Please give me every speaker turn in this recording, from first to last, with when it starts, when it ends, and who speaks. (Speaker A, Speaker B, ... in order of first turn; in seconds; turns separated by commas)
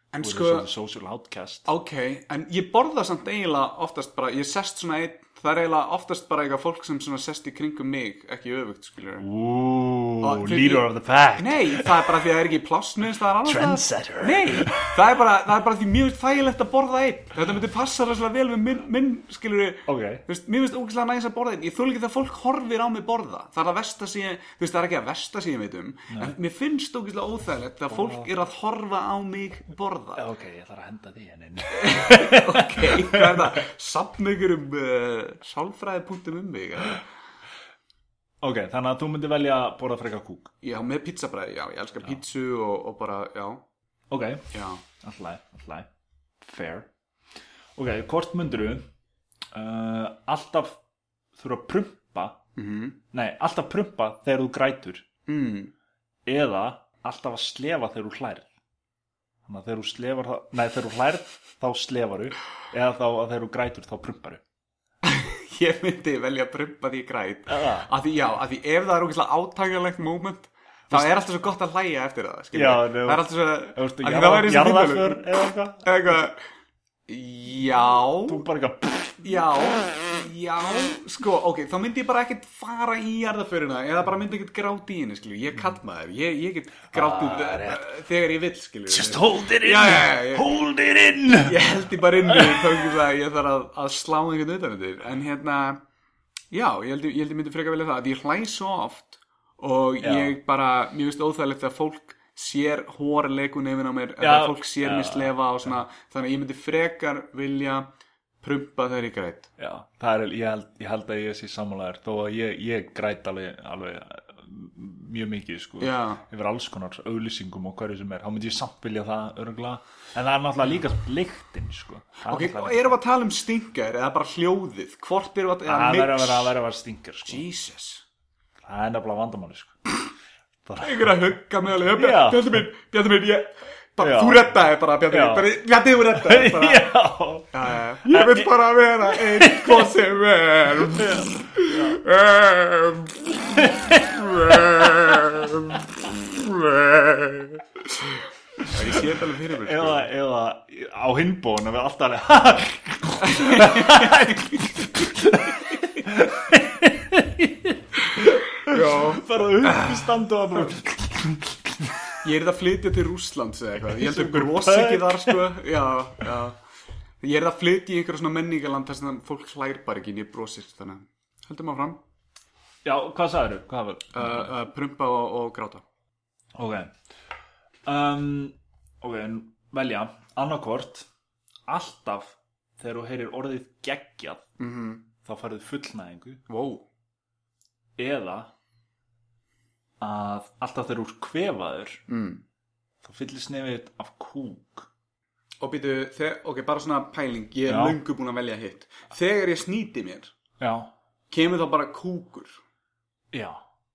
Speaker A: 0.1-0.7, Speaker B: 0.2-1.7, Speaker A: 1.6-9.3, Speaker B: 9.2-12.2, Speaker A: 10.2-30.2, Speaker B: 13.4-14.9, Speaker B: 19.9-20.2, Speaker B: 26.1-26.3, Speaker B: 27.9-28.3, Speaker B: 30.1-33.6, Speaker A: 31.7-37.0, Speaker B: 38.4-40.5, Speaker A: 40.6-43.6, Speaker B: 44.1-45.9, Speaker A: 44.5-44.8, Speaker B: 46.4-46.9, Speaker B: 47.8-48.8, Speaker B: 49.5-50.8, Speaker B: 51.4-52.4, Speaker A: 52.5-53.0, Speaker B: 53.1-55.0, Speaker A: 55.3-55.7, Speaker B: 56.2-58.5, Speaker B: 59.5-64.4, Speaker A: 65.0-75.3, Speaker B: 67.5-67.9, Speaker B: 70.9-71.2, Speaker B: 72.5-76.2, Speaker A: 75.8-76.4, Speaker A: 77.1-78.4, Speaker B: 78.3-79.4, Speaker A: 79.2-90.5, Speaker B: 86.9-87.9, Speaker B: 88.9-93.0, Speaker A: 91.4-95.8, Speaker A: 96.5-109.5, Speaker B: 100.0-100.4, Speaker B: 104.2-105.7, Speaker B: 109.6-123.0, Speaker A: 115.8-116.2, Speaker A: 122.2-126.5, Speaker B: 125.7-127.5, Speaker A: 127.3-128.0, Speaker B: 128.6-129.8, Speaker B: 130.7-131.2, Speaker A: 130.8-136.9, Speaker B: 131.8-132.6, Speaker B: 134.0-134.5, Speaker B: 135.1-135.5, Speaker B: 136.1-140.0, Speaker A: 137.5-143.4, Speaker B: 140.8-142.0, Speaker B: 143.4-147.4, Speaker A: 144.4-145.7, Speaker A: 148.6-150.1, Speaker B: 149.6-162.2, Speaker A: 153.2-154.7, Speaker A: 158.1-160.0, Speaker A: 162.2-166.6, Speaker B: 163.9-165.4, Speaker A: 167.2-172.0, Speaker B: 172.8-174.5, Speaker A: 174.1-175.8, Speaker B: 176.5-176.9, Speaker B: 177.8-181.1, Speaker B: 181.7-184.5, Speaker A: 184.6-185.1, Speaker B: 185.2-186.4, Speaker A: 186.5-186.8, Speaker B: 188.0-188.5, Speaker B: 190.0-192.0, Speaker A: 192.1-192.4, Speaker B: 193.0-194.9, Speaker A: 195.6-200.3, Speaker B: 197.7-198.0, Speaker B: 200.6-200.9, Speaker A: 201.3-202.6, Speaker B: 203.3-203.6